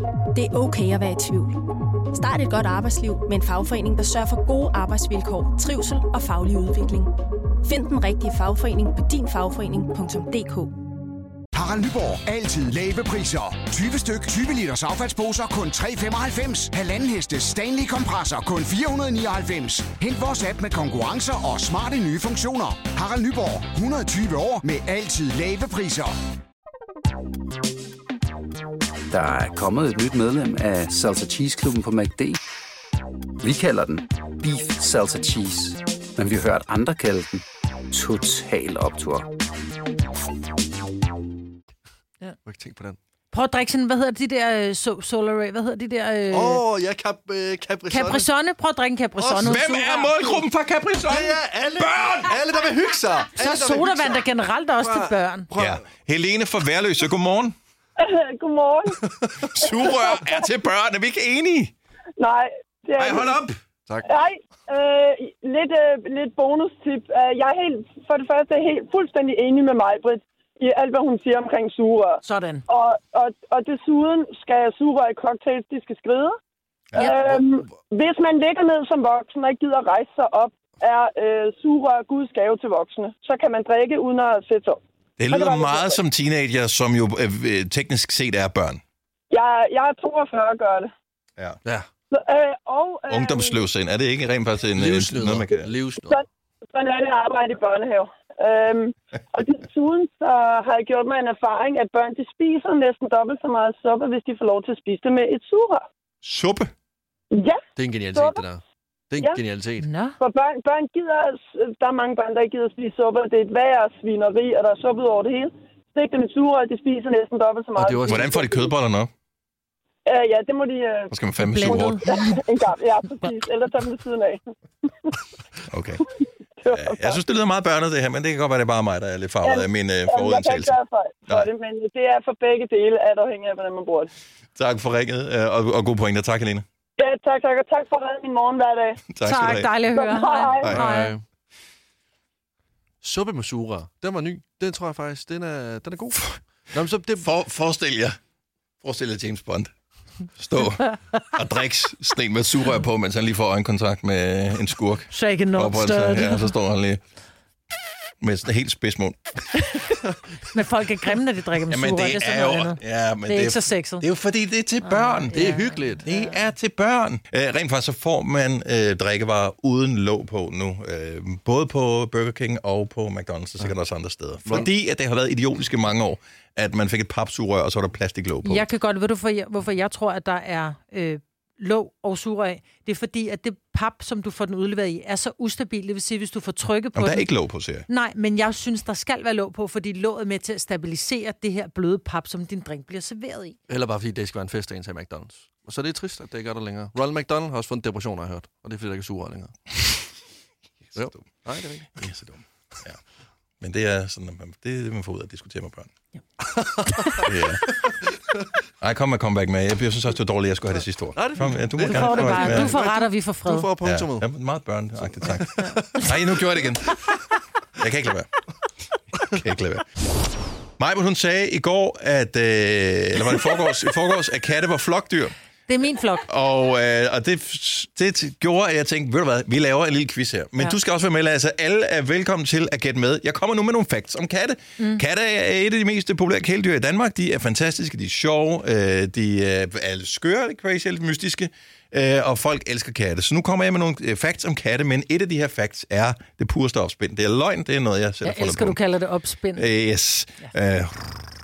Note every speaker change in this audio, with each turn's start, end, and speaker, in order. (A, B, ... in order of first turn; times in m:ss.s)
0:00.3-0:01.6 A
0:02.1-0:07.1 A
0:07.6-0:10.7 A
0:11.5-0:26.2 B
0:29.1-0:32.4 C
0:33.4-0:39.3 C
0:42.4-0:43.0 D
0:43.3-0:46.6 E
0:46.3-0:48.3 D
0:47.9-0:50.1 E
0:49.2-0:50.4 D
0:49.4-0:52.4 F
0:51.0-0:54.3 D
0:53.4-0:55.5 E
0:54.8-0:55.9 D
0:55.6-0:57.6 F
0:58.0-0:59.0 G
0:59.4-1:01.7 F
0:59.6-1:00.4 G
1:02.2-1:03.5 G
1:03.0-1:03.6 F
1:04.0-1:16.4 G
1:12.2-1:12.6 E
1:16.9-1:26.0 G
1:17.1-1:17.7 D
1:25.2-1:28.8 F
1:29.3-1:30.9 G
1:32.1-1:33.6 G
1:33.1-1:35.7 F
1:34.7-1:36.2 D
1:36.1-1:45.8 G
1:46.2-1:46.7 F
1:47.3-1:47.6 G
1:47.8-1:49.9 D
1:48.1-1:48.4 G
1:49.8-1:50.2 E
1:50.2-1:58.7 G
1:57.8-1:58.4 D
1:58.1-1:59.1 F
2:00.1-2:01.1 G
2:01.1-2:02.1 F
2:01.4-2:02.4 E
2:01.7-2:04.4 G
2:05.7-2:06.0 F
2:06.6-2:07.2 G
2:06.7-2:11.5 F
2:09.4-2:14.1 G
2:14.6-2:16.6 F
2:17.0-2:19.0 G
2:19.1-2:19.7 F
2:19.2-2:21.2 E
2:19.8-2:20.8 G
2:20.6-2:20.9 F
2:20.7-2:21.2 D
2:23.0-2:27.3 D
2:27.2-2:28.2 F
2:28.8-2:29.7 F
2:30.4-2:37.0 F
2:35.1-2:36.5 E
2:38.2-2:39.7 F
2:40.5-2:44.0 E
2:41.7-2:45.5 F
2:44.8-2:46.3 E
2:45.3-2:46.0 D
2:46.0-2:58.7 F
2:54.4-2:54.7 D
2:58.4-3:13.6 E
3:07.0-3:07.9 F
3:13.7-3:19.6 D
3:20.9-3:21.4 F
3:21.0-3:22.0 D
3:22.0-3:23.0 F
3:23.6-3:25.9 F
3:26.4-3:28.4 D
3:27.3-3:27.6 F
3:28.8-3:32.7 F
3:30.8-3:34.3 D
3:31.8-3:33.7 E
3:33.8-3:37.0 F
3:35.1-3:36.5 D
3:37.8-3:38.3 F
3:39.3-3:39.8 F
3:40.8-3:45.3 F
3:45.7-3:46.3 E
3:46.2-4:08.8 F
4:08.2-4:09.7 E
4:09.6-4:11.0 F